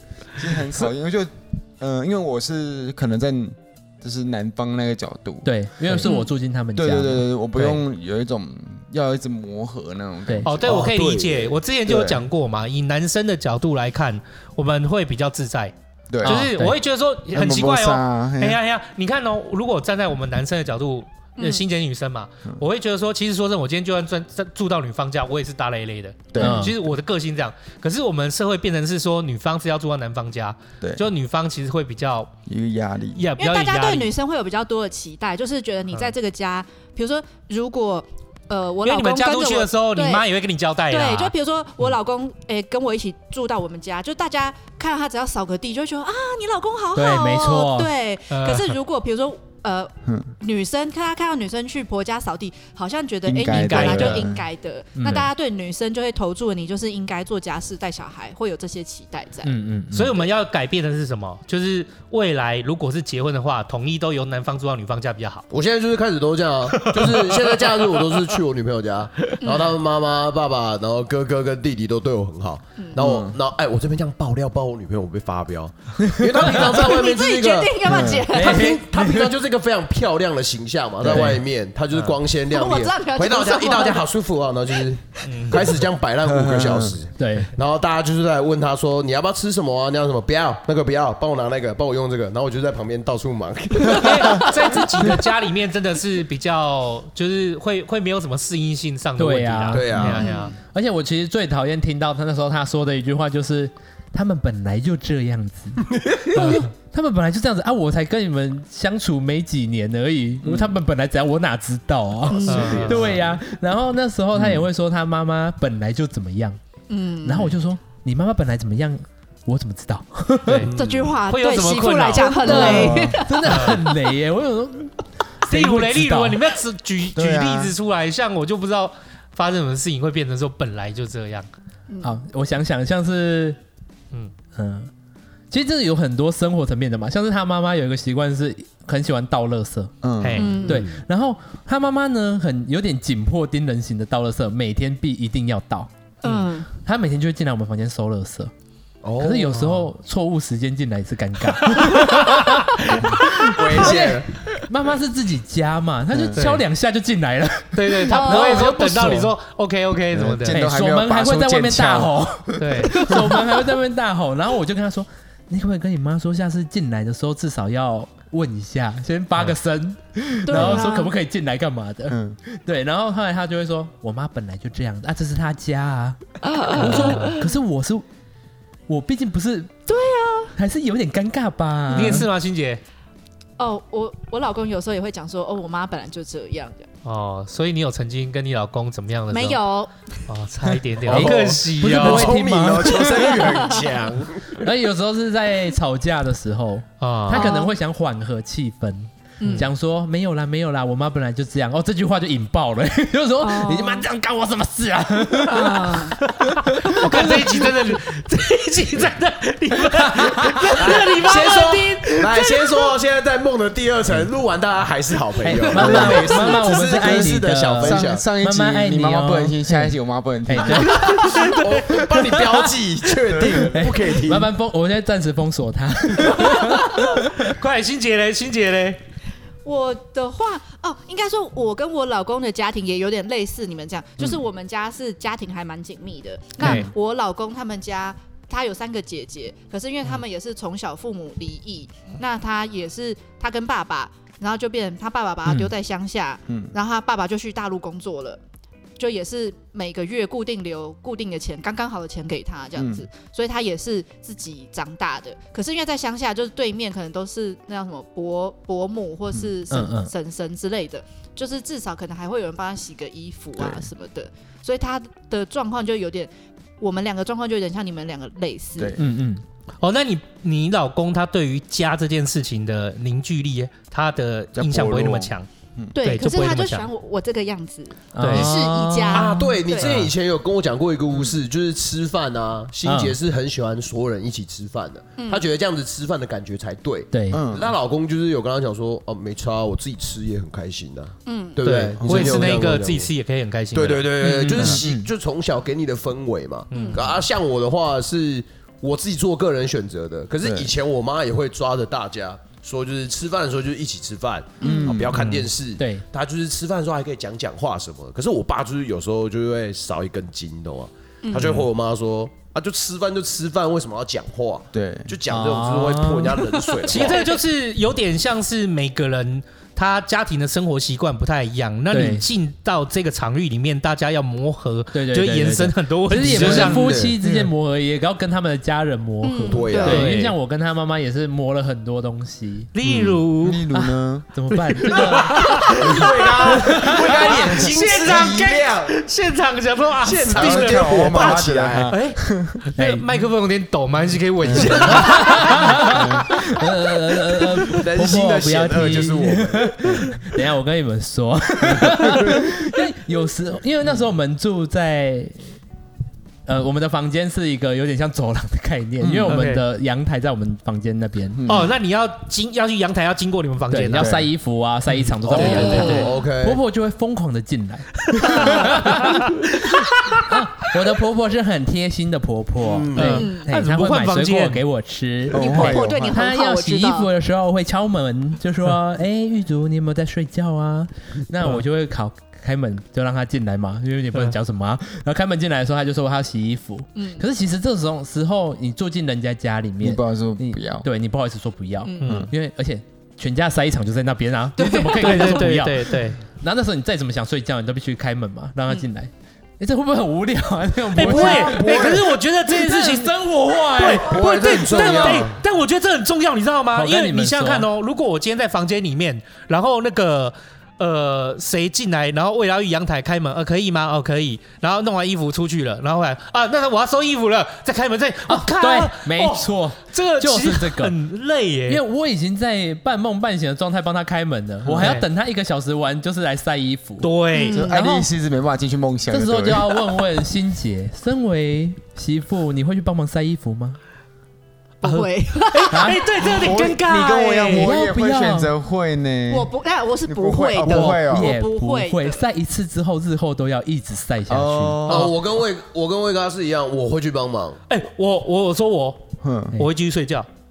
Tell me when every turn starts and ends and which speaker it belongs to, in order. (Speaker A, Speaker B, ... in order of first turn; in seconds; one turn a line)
Speaker A: 0.4-6.1
Speaker B: 5.5-7.8
Speaker C: 6.0-6.3
Speaker A: 6.8-10.8
Speaker D: 10.4-32.3
Speaker E: 10.6-11.6
Speaker A: 11.9-12.2
Speaker A: 16.1-16.5
Speaker B: 16.2-16.8
Speaker A: 17.3-18.6
Speaker C: 21.4-21.7
Speaker A: 26.3-26.7
Speaker B: 26.4-26.8
Speaker A: 30.8-31.1
Speaker A: 32.5-33.3
Speaker D: 33.1-34.1
Speaker C: 33.4-40.3
Speaker D: 38.8-41.3
Speaker C: 40.9-59.5
Speaker B: 47.0-47.9
Speaker D: 48.3-48.8
Speaker A: 53.3-54.5
Speaker D: 53.5-54.3
Speaker B: 55.0-55.3
Speaker B: 59.4-60.2
Speaker D: 59.9-65.5
Speaker E: 65.5-94.8
Speaker D: 66.7-68.4
Speaker C: 69.4-69.8
Speaker A: 73.0-73.3
Speaker B: 76.1-76.6
Speaker C: 76.7-78.8
Speaker A: 77.8-78.3
Speaker B: 78.3-79.3
Speaker A: 81.0-81.3
Speaker B: 81.1-81.4
Speaker C: 82.5-84.1
Speaker D: 85.3-85.7
Speaker A: 86.2-87.0
Speaker B: 87.2-87.5
Speaker D: 93.9-100.5
Speaker B: 99.2-116.6
Speaker E: 99.7-100.4
Speaker C: 100.1-100.5
Speaker E: 105.9-106.6
Speaker D: 106.3-106.7
Speaker C: 112.3-112.9
Speaker D: 112.5-113.1
Speaker E: 112.5-113.2
Speaker A: 114.4-114.6
Speaker C: 116.9-117.6
Speaker B: 117.2-120.7
Speaker D: 120.5-122.9
Speaker E: 120.6-121.1
Speaker C: 120.7-124.0
Speaker B: 122.4-126.4
Speaker A: 122.5-123.2
Speaker D: 123.5-123.8
Speaker D: 125.5-131.5
Speaker A: 127.2-127.8
Speaker C: 131.9-132.2
Speaker B: 132.0-133.6
Speaker B: 134.6-134.9
Speaker B: 135.5-139.9
Speaker A: 140.0-140.6
Speaker D: 140.2-140.7
Speaker C: 140.4-140.8
Speaker E: 140.6-141.0
Speaker B: 140.7-145.9
Speaker C: 146.2-146.7
Speaker D: 146.2-146.5
Speaker B: 146.8-148.5
Speaker E: 149.0-149.6
Speaker B: 149.2-159.3
Speaker D: 149.5-149.9
Speaker E: 153.4-154.6
Speaker A: 156.1-156.4
Speaker D: 156.4-156.6
Speaker D: 157.7-160.6
Speaker C: 158.1-158.7
Speaker A: 160.1-162.8
Speaker B: 160.5-178.0
Speaker D: 162.6-163.1
Speaker C: 163.1-163.6
Speaker C: 170.5-171.1
Speaker A: 170.5-170.9
Speaker A: 172.1-172.4
Speaker C: 176.4-177.5
Speaker D: 176.8-177.4
Speaker B: 178.9-179.8
Speaker C: 179.9-180.5
Speaker B: 180.6-182.3
Speaker A: 181.9-182.3
Speaker D: 181.9-182.8
Speaker C: 183.6-186.9
Speaker D: 187.1-189.6
Speaker C: 189.3-190.2
Speaker D: 190.3-192.3
Speaker E: 191.1-194.7
Speaker B: 191.1-193.6
Speaker B: 194.6-207.7
Speaker D: 197.0-197.6
Speaker C: 197.3-197.7
Speaker C: 199.4-199.7
Speaker C: 203.4-204.1
Speaker C: 205.5-206.2
Speaker D: 206.8-212.8
Speaker B: 209.9-210.9
Speaker E: 210.8-218.2
Speaker B: 215.4-219.9
Speaker A: 215.8-216.3
Speaker A: 217.8-221.1
Speaker B: 220.5-221.4
Speaker E: 220.9-224.5
Speaker B: 222.2-222.7
Speaker A: 223.3-223.7
Speaker B: 223.6-227.5
Speaker D: 227.4-229.0
Speaker C: 229.6-248.4
Speaker D: 236.6-236.9
Speaker A: 236.7-236.9
Speaker A: 246.5-246.7
Speaker C: 249.0-269.0
Speaker A: 252.8-253.1
Speaker B: 259.7-260.1
Speaker A: 263.6-263.9
Speaker A: 268.8-269.0
Speaker B: 269.0-269.4
Speaker D: 269.8-275.5
Speaker A: 274.6-275.9
Speaker C: 275.9-280.1
Speaker D: 276.0-276.9
Speaker B: 278.1-279.9
Speaker D: 278.2-278.5
Speaker E: 279.1-293.1
Speaker B: 282.9-283.2
Speaker C: 285.2-285.5
Speaker B: 287.1-287.4
Speaker A: 287.3-287.7
Speaker C: 291.3-291.6
Speaker D: 291.6-294.8
Speaker A: 292.0-292.6
Speaker E: 293.7-317.2
Speaker B: 294.2-295.1
Speaker D: 296.7-297.1
Speaker C: 296.7-297.2
Speaker A: 300.4-300.7
Speaker C: 304.6-305.0
Speaker A: 304.6-305.2
Speaker B: 305.2-306.1
Speaker C: 311.2-311.6
Speaker A: 314.7-315.1
Speaker B: 315.3-316.4
Speaker C: 316.6-317.4
Speaker D: 316.9-327.1
Speaker B: 321.9-322.3
Speaker B: 324.9-332.7
Speaker E: 326.2-327.2
Speaker C: 329.2-330.2
Speaker E: 329.5-330.3
Speaker D: 329.8-330.3
Speaker D: 332.7-333.7
Speaker A: 332.9-334.3
Speaker B: 333.8-335.6
Speaker D: 334.5-346.1
Speaker C: 335.5-336.2
Speaker E: 335.7-338.9
Speaker B: 336.5-337.3
Speaker E: 340.0-341.9
Speaker A: 340.3-342.6
Speaker B: 342.8-343.1
Speaker A: 344.4-344.8
Speaker E: 344.5-345.3
Speaker B: 344.9-355.4
Speaker A: 345.9-346.2
Speaker E: 347.7-349.9
Speaker B: 356.5-361.4
Speaker A: 359.0-359.4
Speaker D: 359.3-359.6
Speaker A: 361.4-361.7
Speaker D: 361.5-364.2
Speaker B: 363.7-369.4
Speaker A: 363.9-364.3
Speaker E: 365.3-366.6
Speaker D: 365.3-366.1
Speaker C: 365.6-366.1
Speaker C: 368.2-368.8
Speaker D: 369.3-369.9
Speaker B: 370.2-401.9
Speaker E: 372.6-373.3
Speaker D: 372.9-374.6
Speaker C: 373.1-373.5
Speaker A: 375.3-376.2
Speaker C: 375.3-377.1
Speaker C: 387.0-387.2
Speaker A: 389.8-390.9
Speaker C: 391.8-392.2
Speaker D: 392.0-392.3
Speaker A: 392.1-392.3
Speaker C: 394.6-395.5
Speaker D: 395.0-396.2
Speaker D: 400.9-403.2
Speaker E: 401.1-402.1
Speaker B: 402.5-405.3
Speaker D: 403.7-421.8
Speaker E: 404.0-405.4
Speaker B: 406.7-407.7
Speaker B: 418.3-420.9
Speaker B: 421.7-427.1
Speaker A: 424.7-424.9
Speaker D: 424.8-425.1
Speaker D: 427.0-427.6
Speaker C: 427.3-427.7
Speaker A: 427.5-429.8
Speaker B: 427.7-428.1
Speaker B: 429.1-433.8
Speaker C: 434.8-436.3
Speaker D: 434.9-437.7
Speaker B: 435.7-436.0
Speaker A: 436.2-439.5
Speaker B: 437.5-438.5
Speaker C: 439.3-442.2
Speaker A: 440.1-441.4
Speaker B: 440.6-444.8
Speaker A: 444.3-445.2
Speaker E: 444.9-447.6
Speaker D: 447.7-450.3
Speaker A: 449.2-449.6